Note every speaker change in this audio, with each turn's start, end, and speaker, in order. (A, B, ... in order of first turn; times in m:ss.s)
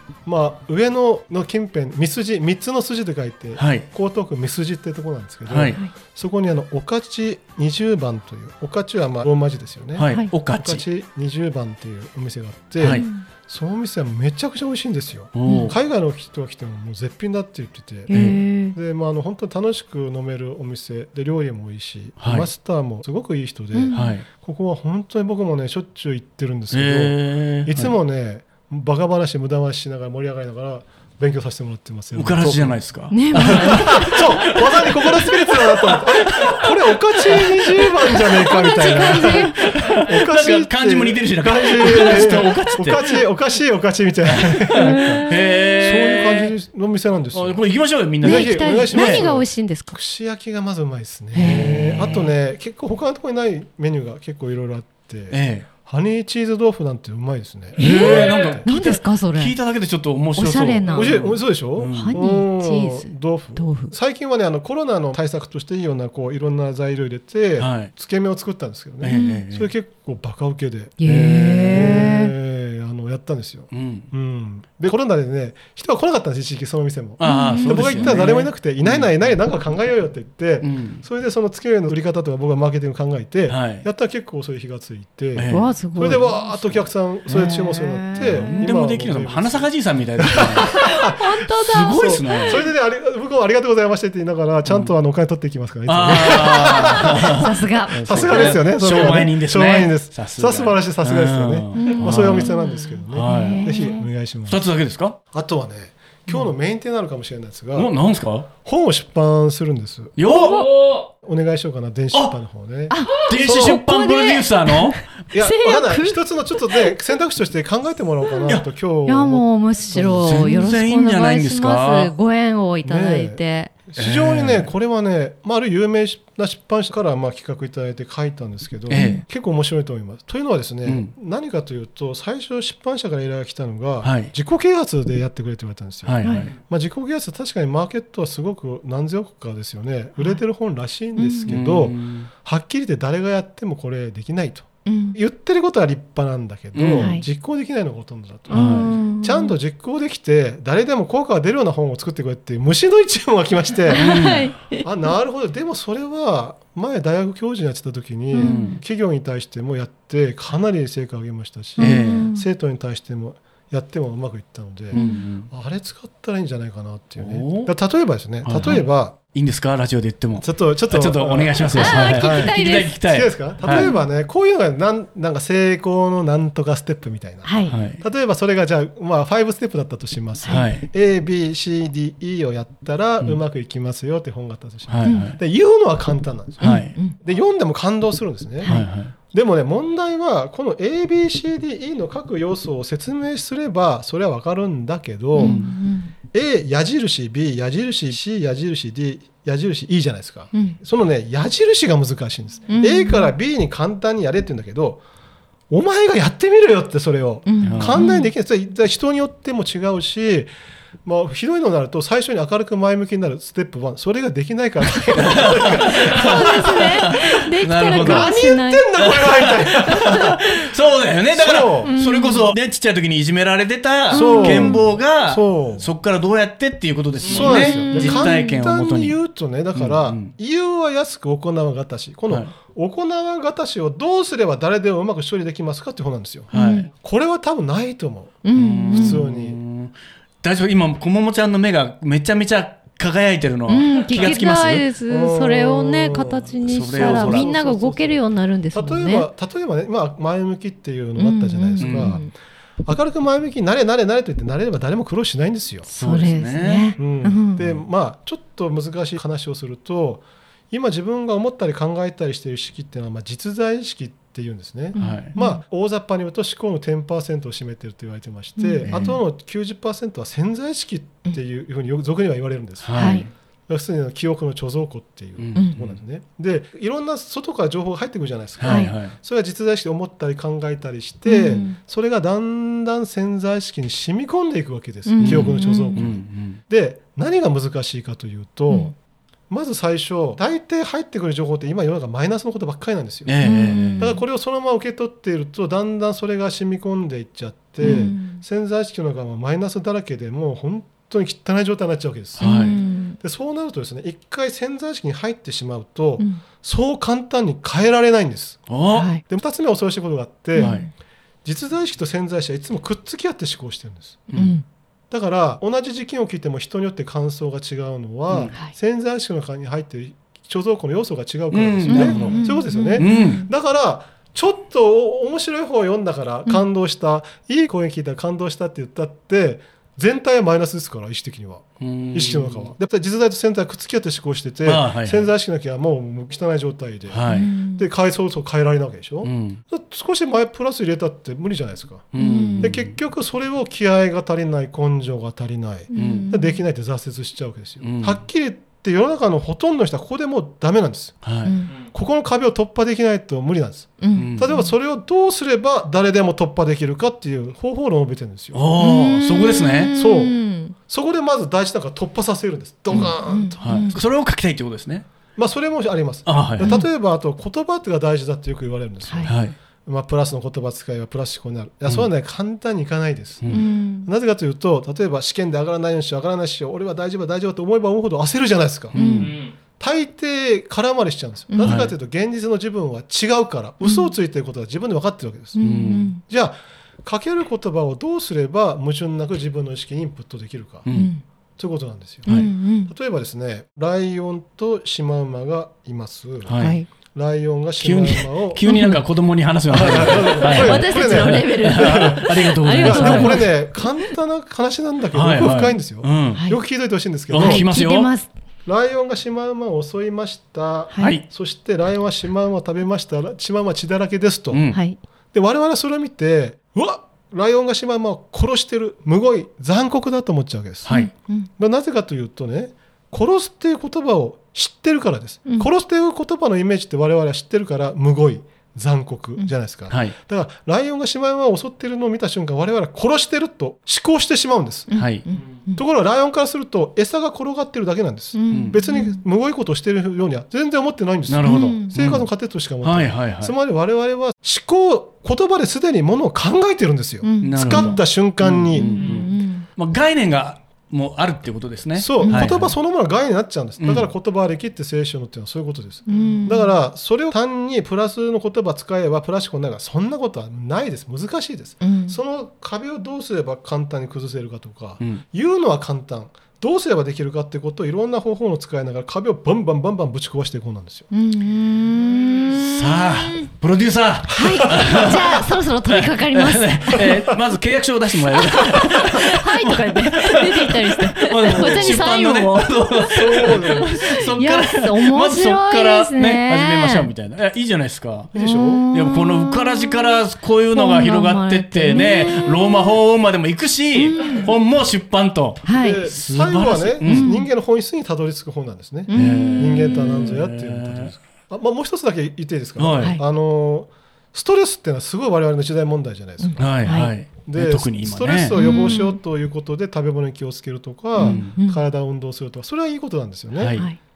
0:00.2-0:32.8 A
0:03.6-0:03.8 B
0:05.5-0:05.8 B
0:10.0-0:10.8 B
0:12.8-0:13.0 B
0:12.9-0:13.2 C
0:15.3-0:15.8 B
0:15.4-0:15.7 C
0:18.1-0:18.8 C
0:18.1-0:18.4 B
0:22.2-0:22.5 B
0:23.8-0:24.2 C
0:23.9-0:24.2 B
0:26.7-0:27.9 B
0:32.1-0:36.7 B
0:33.1-0:34.2 C
0:33.4-0:45.3 A
0:37.4-0:37.7 B
0:38.3-0:43.2 B
0:38.4-0:39.6 C
0:42.0-0:42.4 C
0:44.3-0:46.5 B
0:44.8-0:45.4 C
0:45.8-0:47.6 A
0:47.3-0:49.3 B
0:48.2-0:58.6 A
0:48.2-0:50.0 C
0:51.3-0:52.2 C
0:51.4-0:52.3 B
0:55.3-0:55.7 B
0:57.8-0:59.6 C
0:57.8-1:02.2 B
1:00.3-1:01.3 C
1:00.9-1:11.0 A
1:01.9-1:03.9 C
1:07.6-1:07.9 B
1:09.0-1:09.7 B
1:09.1-1:09.5 C
1:11.0-1:12.3 C
1:11.0-1:12.1 B
1:11.6-1:31.2 A
1:13.7-1:14.1 B
1:17.2-1:19.2 B
1:17.2-1:18.4 C
1:20.6-1:21.0 B
1:23.5-1:23.8 B
1:25.3-1:26.8 B
1:25.5-1:26.3 C
1:27.3-1:28.7 C
1:28.2-1:30.7 B
1:30.3-1:32.6 C
1:31.5-1:32.6 B
1:31.9-1:44.6 A
1:34.7-1:34.9 B
1:35.8-1:42.5 B
1:36.1-1:38.6 C
1:41.7-1:44.0 C
1:43.1-1:43.9 B
1:44.4-1:45.2 B
1:45.3-1:47.9 A
1:47.7-1:48.5 B
1:48.6-1:50.2 A
1:50.2-1:50.7 B
1:50.3-1:50.9 C
1:51.2-1:53.7 A
1:52.9-1:57.0 C
1:53.2-1:55.0 B
1:55.3-2:00.7 A
1:59.0-2:03.7 C
2:00.2-2:02.1 B
2:02.8-2:34.2 A
2:04.0-2:04.7 B
2:08.9-2:09.2 B
2:08.9-2:09.2 C
2:10.8-2:11.1 B
2:14.0-2:14.3 B
2:16.0-2:16.5 B
2:16.2-2:16.5 C
2:21.2-2:21.5 C
2:21.4-2:22.3 B
2:24.8-2:25.2 C
2:26.7-2:27.1 B
2:26.9-2:27.2 C
2:28.5-2:29.6 C
2:28.5-2:29.0 B
2:33.8-2:34.8 C
2:33.9-2:34.5 B
2:34.8-2:49.1 A
2:38.3-2:38.8 C
2:38.4-2:38.8 B
2:41.8-2:42.3 B
2:41.8-2:42.4 C
2:44.9-2:45.3 C
2:44.9-2:45.5 B
2:47.2-2:47.7 B
2:48.4-2:53.9 B
2:50.4-3:15.7 A
2:51.7-2:53.0 C
2:53.6-2:54.0 C
2:57.4-2:57.7 C
2:57.7-2:58.0 B
3:00.5-3:00.8 B
3:04.9-3:05.4 B
3:05.0-3:05.3 C
3:06.6-3:06.9 B
3:06.6-3:07.2 C
3:08.6-3:09.1 B
3:15.3-3:16.1 C
3:15.4-3:15.8 B
3:16.3-3:25.0 A
3:20.5-3:20.8 C
3:22.7-3:23.3 C
3:25.7-3:30.5 A
3:27.4-3:28.3 C
3:27.6-3:28.1 B
3:31.0-3:36.8 A
3:35.1-3:38.3 B
3:35.8-3:40.5 C
3:38.0-3:40.4 A
3:39.0-3:49.2 B
3:41.3-3:41.9 A
3:41.8-3:42.5 C
3:44.1-3:44.9 C
3:44.1-3:45.9 A
3:47.2-3:58.4 A
3:47.3-3:48.6 C
3:49.7-3:50.3 B
3:56.5-3:56.9 B
3:56.5-3:56.9 C
3:58.4-3:59.2 C
3:58.5-4:04.9 B
3:58.9-3:59.6 A
4:03.7-4:09.3 C
4:05.1-4:12.3 A
4:06.7-4:07.5 B
4:11.2-4:12.3 C
4:11.8-4:12.2 B
4:12.8-4:15.9 A
4:15.9-4:17.6 C
4:16.0-4:17.0 B
4:17.0-4:48.9 A
4:24.9-4:25.3 B
4:24.9-4:25.6 C
4:28.6-4:28.9 C
4:28.8-4:29.2 B
4:32.8-4:33.3 B
4:33.0-4:33.2 C
4:35.4-4:36.0 B
4:38.6-4:39.1 B
4:38.6-4:38.9 C
4:41.2-4:41.8 C
4:45.0-4:46.0 C
4:45.2-4:46.6 B
4:49.5-5:10.8 A
4:53.2-4:54.1 B
4:53.4-4:54.2 C
4:57.8-4:58.1 B
4:57.8-4:58.4 C
5:02.4-5:02.8 B
5:02.4-5:03.2 C
5:08.7-5:09.1 B
5:08.9-5:09.2 C
5:10.5-5:10.9 C
5:10.6-5:10.9 B
5:11.4-5:14.2 A
5:14.3-5:14.6 C
5:15.1-5:58.8 A
5:18.3-5:18.5 B
5:21.5-5:23.5 B
5:21.9-5:23.5 C
5:31.8-5:32.7 B
5:34.6-5:35.3 B
5:37.1-5:37.5 B
5:37.3-5:37.9 C
5:39.2-5:39.6 B
5:42.1-5:43.0 B
5:42.2-5:42.7 C
5:45.9-5:46.6 C
5:45.9-5:46.3 B
5:47.8-5:48.2 B
5:51.2-5:51.6 B
5:51.4-5:51.7 C
5:54.0-5:54.7 C
5:54.1-5:54.5 B
5:58.5-5:59.9 B
5:58.8-6:00.8 C
5:59.9-6:04.0 A
6:02.9-6:05.0 B
6:02.9-6:04.0 C
6:05.4-6:19.0 A
6:06.2-6:06.8 B
6:06.6-6:06.9 C
6:09.2-6:09.6 B
6:13.5-6:14.1 C
6:18.9-6:19.4 B
6:18.9-6:19.4 C
6:19.7-6:25.6 A
6:21.5-6:21.8 C
6:21.6-6:21.9 B
6:23.8-6:24.1 C
6:25.6-6:26.2 C
6:25.6-6:26.2 B
6:26.3-6:30.9 A
6:30.8-6:31.1 B
6:30.9-6:31.2 C
6:31.6-6:38.6 A
6:32.2-6:32.9 C
6:32.2-6:32.5 B
6:36.4-6:36.8 B
6:36.6-6:36.9 C
6:37.8-6:43.5 B
6:38.7-6:39.0 C
6:39.7-6:47.7 A
6:39.9-6:44.0 C
6:45.1-6:46.4 B
6:46.3-6:46.6 C
6:47.3-6:48.1 B
6:47.3-6:48.3 C
6:48.6-6:54.6 A
6:50.9-6:51.2 C
6:54.5-6:54.8 B
6:54.7-6:55.0 C
6:55.3-7:01.0 A
7:00.8-7:01.1 B
7:00.9-7:01.5 C
7:01.6-7:14.9 A
7:09.9-7:10.1 B
7:14.9-7:15.8 C
7:14.9-7:15.2 B
7:15.7-7:28.9 A
7:18.3-7:19.2 C
7:18.5-7:18.8 B
7:21.3-7:22.3 B
7:21.4-7:21.9 C
7:22.8-7:23.5 B
7:27.2-7:28.0 C
7:27.4-7:32.7 B
7:28.7-7:29.7 C
7:32.0-7:51.1 A
7:32.2-7:32.5 C
7:33.8-7:34.1 B
7:36.1-7:36.7 C
7:41.8-7:42.2 C
7:51.1-7:53.5 C
7:52.5-8:08.3 B
7:54.3-7:57.1 C
7:54.6-7:55.1 A
7:58.3-8:07.1 C
8:01.5-8:02.0 A
8:03.1-8:04.2 A
8:08.3-8:08.8 A
8:08.3-8:13.0 C
8:08.9-8:17.3 B
8:14.0-8:14.5 C
8:15.6-8:16.1 C
8:15.7-8:33.9 A
8:17.0-8:17.5 C
8:19.1-8:20.1 C
8:19.1-8:21.1 B
8:22.8-8:23.2 B
8:26.4-8:27.1 C
8:26.6-8:28.9 B
8:28.5-8:29.2 C
8:31.2-8:31.8 C
8:31.2-8:31.5 B
8:33.6-8:33.9 B
8:33.7-8:34.0 C